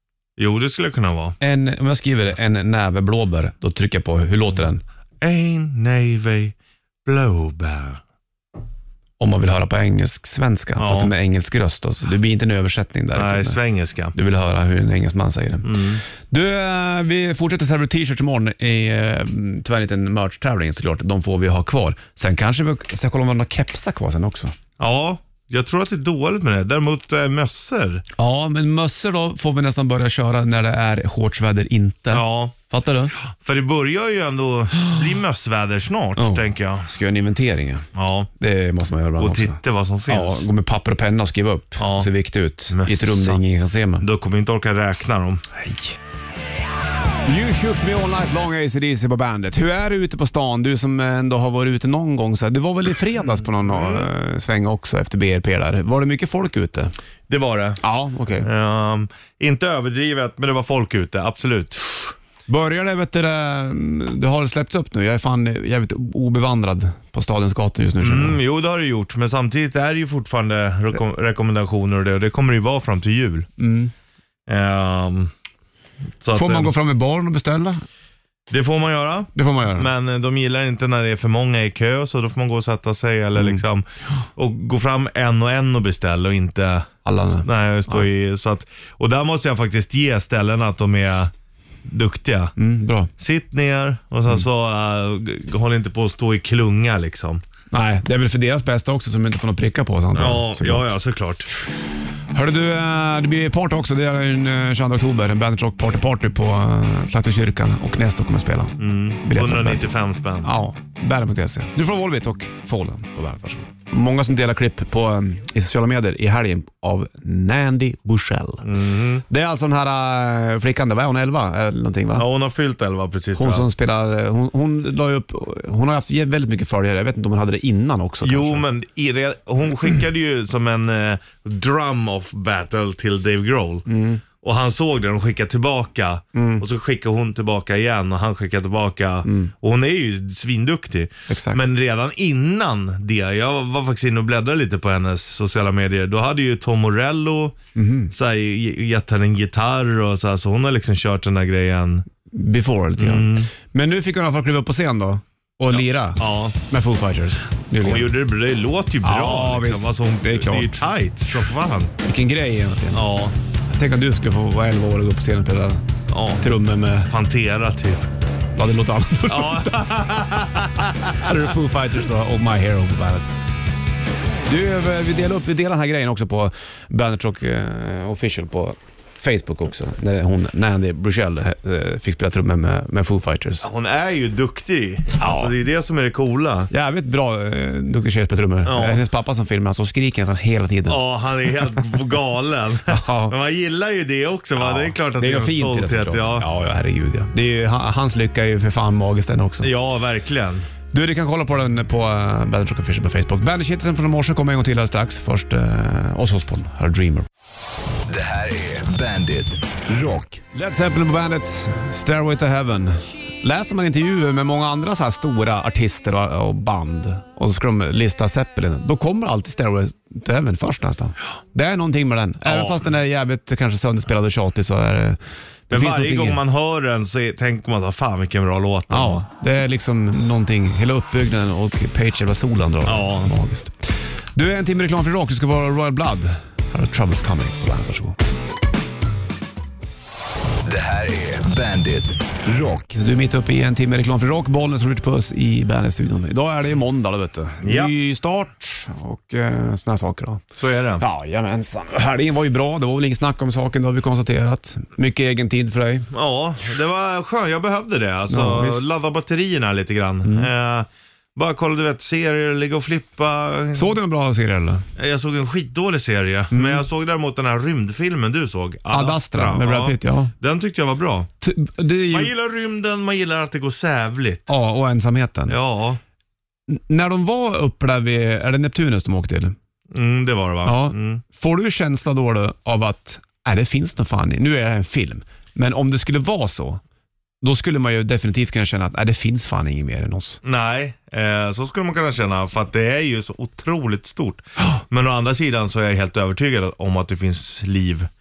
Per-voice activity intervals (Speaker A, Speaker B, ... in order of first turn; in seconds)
Speaker A: 0.4-1.4, 5.2-8.0, 10.8-11.1, 13.2-14.2, 15.6-16.0, 24.8-28.0, 32.1-32.5, 33.3-36.9, 38.0-38.3, 39.2-40.5, 41.8-42.1, 42.7-43.4, 44.0-45.4, 53.4-54.1, 57.3-57.8, 58.4-61.9, 68.0-73.5, 74.5-75.3, 76.2-76.8, 78.5-83.8, 84.4-91.3, 91.8-92.5, 93.2-97.4, 100.1-101.5, 108.8-110.5, 118.6-119.2, 122.2-123.7, 128.2-133.8, 134.4-147.6, 148.1-152.1, 153.0-153.5, 155.7-156.6, 157.8-161.9, 162.9-163.3, 166.1-166.5, 167.1-168.1, 169.3-171.3, 183.6-186.7, 188.7-189.0, 190.9-196.5, 199.6-200.7, 222.5-222.9, 225.7-229.2, 232.8-233.3, 247.6-247.9, 250.6-251.0, 256.1-264.0, 265.0-271.3, 272.1-274.5, 275.5-276.0, 279.9-281.2, 290.4-298.1
Speaker B: 1.4-4.8, 9.2-13.6, 14.1-15.7, 16.3-24.5, 28.2-33.1, 36.2-37.9, 38.4-44.1, 45.6-46.0, 47.2-56.9, 57.8-58.5, 62.5-68.4, 73.6-73.9, 76.3-77.8, 79.4-79.9, 87.0-88.1, 92.6-93.1, 97.7-100.9, 102.3-109.8, 110.4-118.7, 119.3-122.3, 123.4-128.7, 133.9-134.2, 136.3-136.6, 139.3-139.5, 141.3-141.6, 147.8-148.1, 152.3-158.1, 159.0-160.9, 162.0-163.1, 163.7-165.8, 166.4-167.1, 168.6-169.9, 171.1-173.4, 174.5-183.7, 185.2-185.6, 186.7-191.0, 192.9-193.3, 194.6-199.7, 200.9-207.3, 210.5-225.2, 225.7-226.4, 228.9-238.2, 242.9-250.5, 251.0-256.1, 258.3-258.8, 260.2-260.5, 263.7-264.9, 266.5-266.8, 268.9-270.3, 271.4-272.3, 274.5-275.6, 276.7-279.6, 280.6-286.8, 287.4-290.4
Speaker C: 208.1-210.4, 240.6-242.9